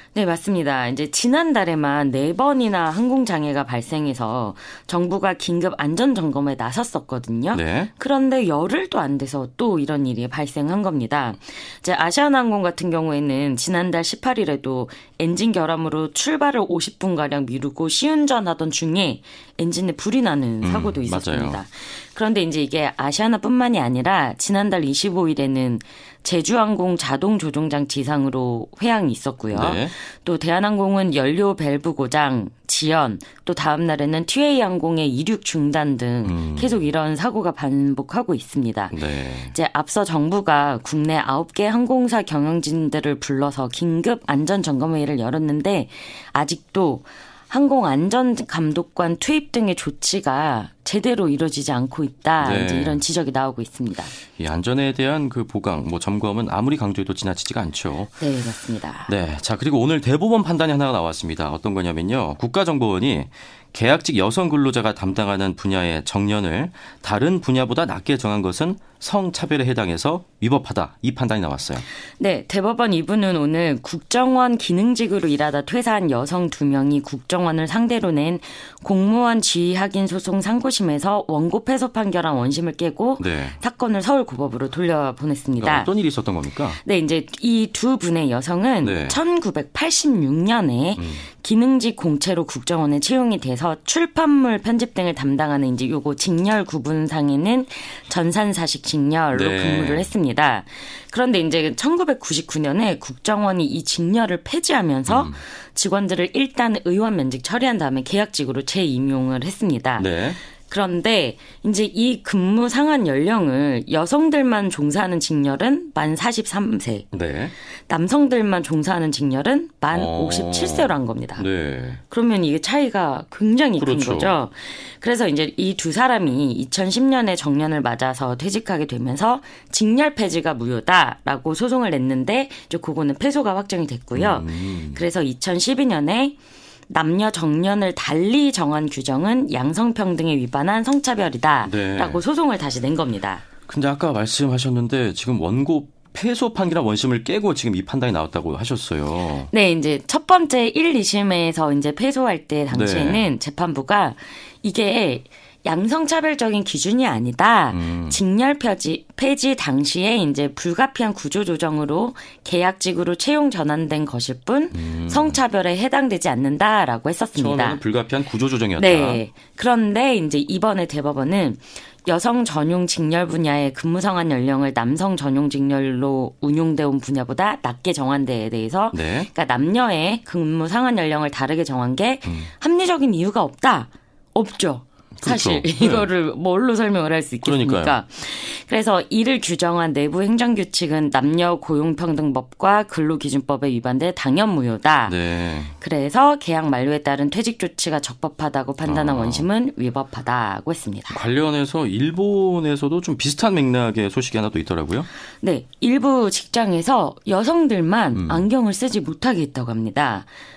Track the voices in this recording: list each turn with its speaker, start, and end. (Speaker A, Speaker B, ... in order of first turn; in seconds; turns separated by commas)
Speaker A: 0.1-39.0, Speaker B: 7.5-7.9, Speaker B: 20.6-21.6, Speaker B: 29.5-29.9, Speaker B: 36.2-36.7, Speaker B: 38.9-39.5, Speaker A: 39.5-54.1, Speaker B: 52.4-53.0, Speaker B: 54.3-58.2, Speaker A: 58.2-59.1, Speaker B: 59.1-71.8, Speaker A: 72.2-85.9, Speaker B: 83.2-83.5, Speaker B: 85.6-86.8, Speaker A: 86.8-117.1, Speaker B: 88.8-89.2, Speaker B: 91.0-91.2, Speaker B: 99.3-100.1, Speaker B: 105.1-105.4, Speaker B: 110.0-110.4, Speaker B: 117.1-117.5, Speaker A: 117.7-121.5, Speaker B: 119.9-122.0, Speaker A: 122.1-136.4, Speaker B: 123.8-124.3, Speaker B: 134.1-135.0, Speaker A: 136.9-143.4, Speaker B: 141.6-142.2, Speaker B: 143.7-149.5, Speaker A: 149.5-167.8, Speaker B: 152.7-153.2, Speaker B: 157.7-158.2, Speaker B: 164.7-165.4, Speaker B: 167.4-169.2, Speaker A: 168.8-195.2, Speaker B: 178.9-179.3, Speaker B: 185.2-186.1, Speaker B: 187.4-187.9, Speaker B: 195.1-195.7, Speaker A: 195.8-201.2, Speaker B: 198.8-199.4, Speaker B: 201.1-205.1, Speaker A: 205.4-210.3, Speaker B: 208.1-208.4